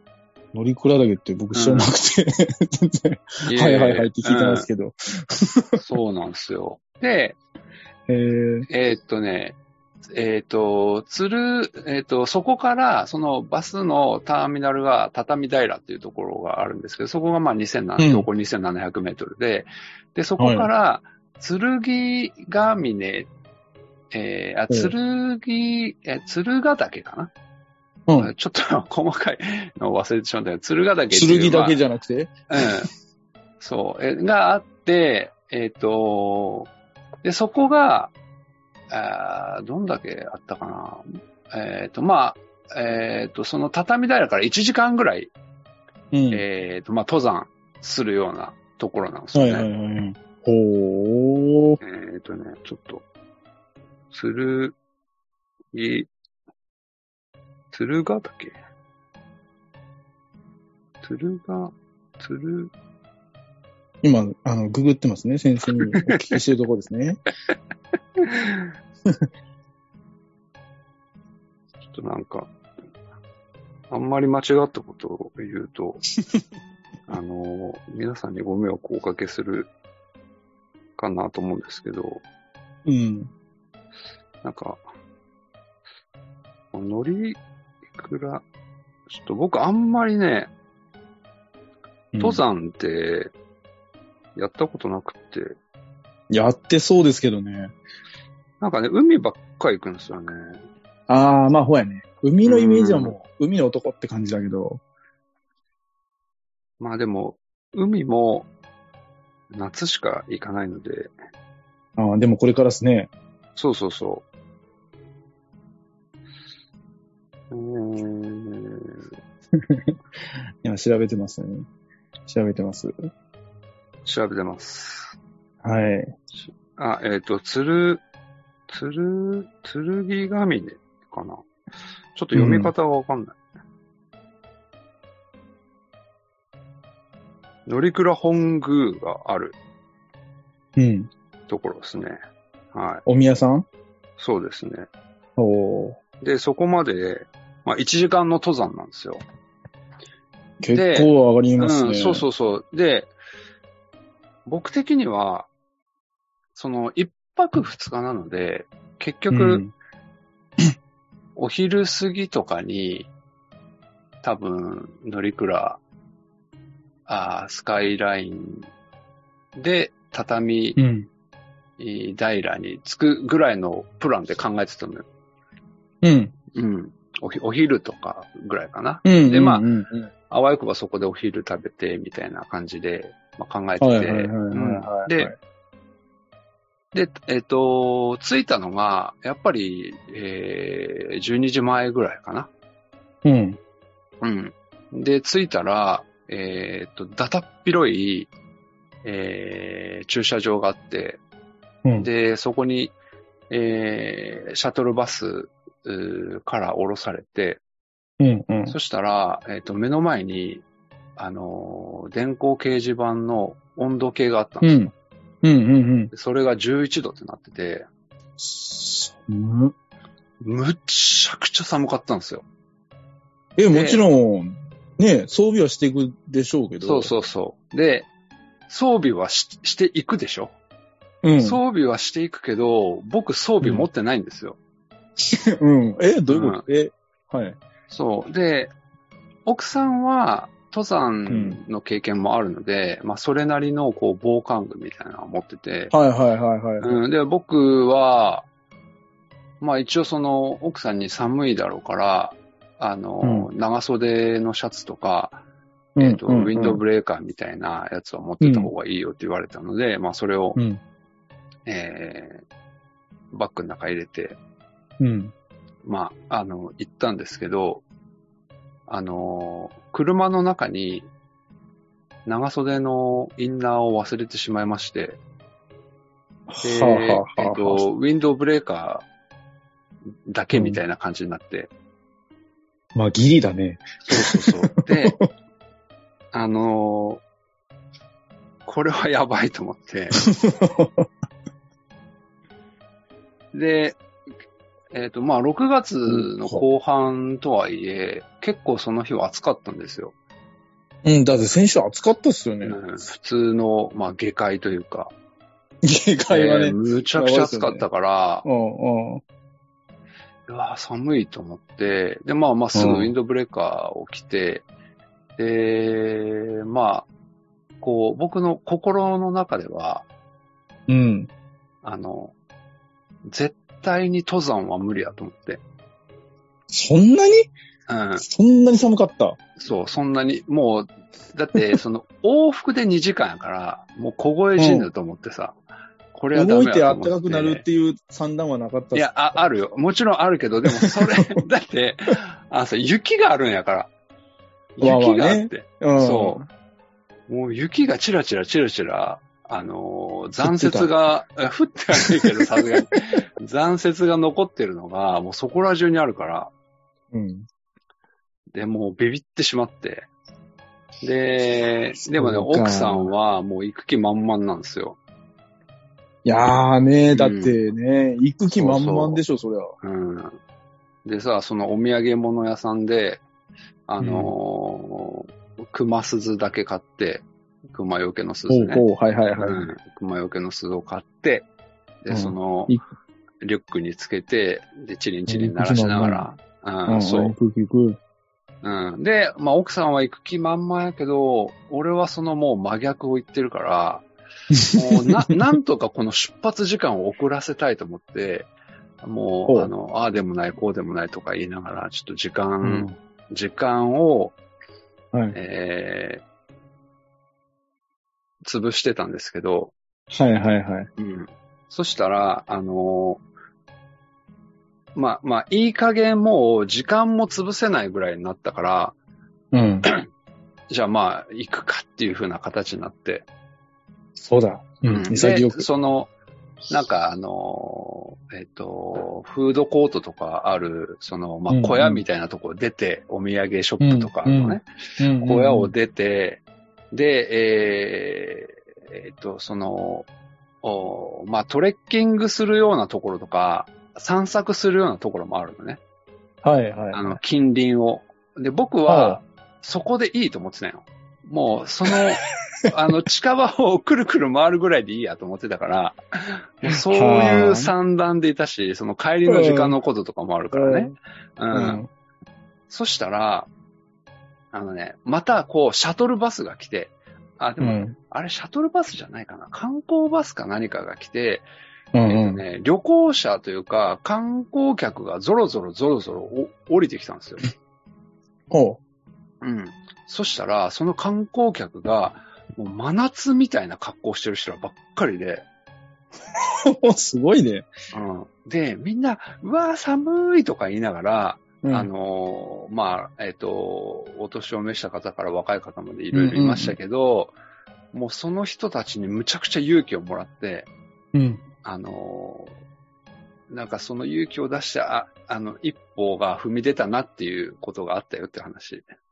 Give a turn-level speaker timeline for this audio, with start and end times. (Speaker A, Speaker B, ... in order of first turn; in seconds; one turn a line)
Speaker A: 0.5-5.8
Speaker B: 1.5-1.9
Speaker B: 3.4-4.7
Speaker B: 5.8-7.4
Speaker A: 8.1-8.7
Speaker B: 8.7-9.6
Speaker B: 10.1-23.3
Speaker A: 18.0-18.3
Speaker A: 20.4-20.7
Speaker B: 24.1-27.3
Speaker A: 28.1-28.3
Speaker B: 28.2-31.8
Speaker A: 31.1-32.9
Speaker B: 32.5-32.9
Speaker B: 33.6-36.7
Speaker B: 37.2-38.1
Speaker B: 38.9-45.3
Speaker A: 46.1-46.4
Speaker B: 46.3-49.7
Speaker A: 49.3-51.8
Speaker B: 51.8-53.0
Speaker B: 54.1-54.8
Speaker B: 55.7-56.1
Speaker B: 57.7-58.5
Speaker B: 61.0-62.7
Speaker A: 64.0-67.2
Speaker B: 65.8-66.2
Speaker B: 68.2-68.7
Speaker B: 71.9-72.5
Speaker B: 73.9-76.0
Speaker B: 77.1-79.7
Speaker B: 81.0-82.2
Speaker A: 82.8-83.3
Speaker B: 84.4-84.8
Speaker B: 86.7-87.4
Speaker B: 87.9-88.4
Speaker B: 89.1-90.5
Speaker A: 92.1-92.4
Speaker B: 92.2-93.3
Speaker B: 94.3-95.6
Speaker A: 96.3-97.7
Speaker B: 98.6-100.6
Speaker A: 101.1-104.8
Speaker B: 102.4-103.2
Speaker B: 106.8-108.5
Speaker B: 109.5-111.1
Speaker A: 112.0-113.1
Speaker B: 113.5-114.2
Speaker B: 117.5-119.0
Speaker A: 119.5-119.9
Speaker A: 120.6-121.7
Speaker A: 122.3-122.9
Speaker B: 124.0-125.2
Speaker A: 125.6-126.1
Speaker B: 126.3-128.0
Speaker B: 128.7-131.4
Speaker B: 132.1-133.4
Speaker A: 132.3-132.7
Speaker B: 137.7-139.6
Speaker A: 140.8-141.1
Speaker B: 141.5-142.2
Speaker B: 142.7-143.0
Speaker A: 143.1-143.7
Speaker B: 144.2-144.9
Speaker A: 145.4-146.0
Speaker B: 146.2-149.2
Speaker A: 150.6-152.2
Speaker B: 150.7-153.1
Speaker B: 154.4-155.5
Speaker B: 156.5-159.6
Speaker A: 159.3-159.7
Speaker B: 161.3-163.1
Speaker B: 164.2-165.8
Speaker B: 167.1-168.7
Speaker B: 169.5-170.8
Speaker A: 170.8-171.1
Speaker B: 171.8-175.0
Speaker A: 176.0-176.3
Speaker B: 176.5-179.6
Speaker A: 179.0-180.1
Speaker B: 180.3-185.3
Speaker A: 183.8-185.3
Speaker B: 186.9-192.5
Speaker A: 193.2-193.6
Speaker B: 194.2-198.3
Speaker B: 199.0-201.2
Speaker B: 202.0-202.9
Speaker B: 203.5-207.6
Speaker A: 208.2-208.8
Speaker B: 208.7-210.6
Speaker B: 211.2-214.8
Speaker A: 214.6-214.9
Speaker A: 215.4-216.1
Speaker B: 216.1-217.9
Speaker A: 218.4-219.7
Speaker B: 220.4-222.4
Speaker A: 223.6-227.1
Speaker B: 223.7-224.0
Speaker B: 226.8-228.1
Speaker B: 228.7-230.5
Speaker A: 231.2-231.6
Speaker B: 231.4-234.6
Speaker A: 233.6-233.9
Speaker A: 235.3-237.6
Speaker B: 236.3-236.6
Speaker B: 237.9-238.7
Speaker B: 239.4-245.9
Speaker A: 241.3-241.6
Speaker A: 245.9-247.0
Speaker B: 246.8-248.5
Speaker B: 249.6-255.4
Speaker A: 253.2-253.5
Speaker A: 255.9-256.8
Speaker B: 256.0-260.6
Speaker A: 258.4-258.7
Speaker A: 260.6-260.8
Speaker B: 261.6-262.4
Speaker B: 263.3-264.4
Speaker A: 265.0-265.3
Speaker B: 265.8-267.8
Speaker B: 268.9-271.1
Speaker B: 272.2-275.2
Speaker A: 276.5-277.8
Speaker B: 276.6-279.0
Speaker B: 280.3-281.7
Speaker A: 280.5-280.8
Speaker A: 282.9-285.3
Speaker B: 284.0-285.2
Speaker B: 286.3-287.2
Speaker B: 288.6-290.2
Speaker A: 290.2-291.1
Speaker B: 293.5-294.0
Speaker B: 294.9-300.1
Speaker A: 296.1-296.6
Speaker A: 301.0-302.8
Speaker B: 302.6-305.1
Speaker A: 305.8-307.8
Speaker B: 306.3-308.4
Speaker A: 308.4-309.2
Speaker B: 310.5-314.6
Speaker A: 312.7-313.1
Speaker B: 315.4-317.1
Speaker B: 317.8-320.1
Speaker A: 320.9-321.3
Speaker B: 321.8-322.3
Speaker B: 323.2-325.6
Speaker A: 326.7-327.5
Speaker B: 327.9-328.2
Speaker A: 328.2-329.4
Speaker B: 329.6-335.6
Speaker A: 334.6-334.9
Speaker B: 336.1-337.6
Speaker A: 336.3-339.1
Speaker B: 338.9-343.9
Speaker A: 340.8-341.4
Speaker B: 344.8-346.4
Speaker A: 344.8-346.5
Speaker B: 347.3-356.5
Speaker A: 350.4-350.9
Speaker A: 351.9-352.4
Speaker A: 357.1-357.4
Speaker B: 358.5-360.1
Speaker B: 361.0-365.0
Speaker A: 362.1-363.1
Speaker A: 366.2-369.7
Speaker B: 367.1-367.6
Speaker B: 368.5-369.2
Speaker B: 369.8-370.4
Speaker B: 371.0-373.2
Speaker B: 373.9-378.9
Speaker A: 374.0-374.3
Speaker A: 378.5-379.7
Speaker B: 379.4-381.5
Speaker B: 382.0-382.8
Speaker A: 382.1-382.9
Speaker B: 383.4-387.3
Speaker A: 385.3-386.3
Speaker A: 386.9-388.0
Speaker B: 388.6-394.1
Speaker A: 394.5-395.4
Speaker B: 394.7-398.5
Speaker B: 399.0-404.4
Speaker A: 402.6-402.9
Speaker B: 405.3-406.2
Speaker B: 408.4-409.7
Speaker A: 410.1-410.9
Speaker B: 411.0-413.2
Speaker B: 414.9-418.9
Speaker A: 419.5-419.9
Speaker B: 420.7-423.3
Speaker A: 424.1-425.6
Speaker B: 424.9-426.1
Speaker B: 426.7-440.1
Speaker A: 431.5-432.0
Speaker A: 433.8-435.7
Speaker B: 440.6-445.8
Speaker A: 446.4-447.2
Speaker B: 446.9-461.8
Speaker A: 448.9-449.2
Speaker A: 456.7-457.7
Speaker A: 459.2-459.8
Speaker A: 460.5-460.9
Speaker A: 461.5-461.9
Speaker B: 462.7-463.5
Speaker B: 464.5-471.4
Speaker A: 467.6-467.9
Speaker A: 471.9-472.4
Speaker B: 472.1-477.4
Speaker A: 478.5-478.8
Speaker B: 479.4-485.4
Speaker A: 486.6-487.7
Speaker B: 487.9-497.3
Speaker A: 491.6-491.9
Speaker A: 496.1-496.8
Speaker B: 497.9-500.7
Speaker A: 501.1-501.4
Speaker B: 501.6-502.5
Speaker B: 503.5-508.8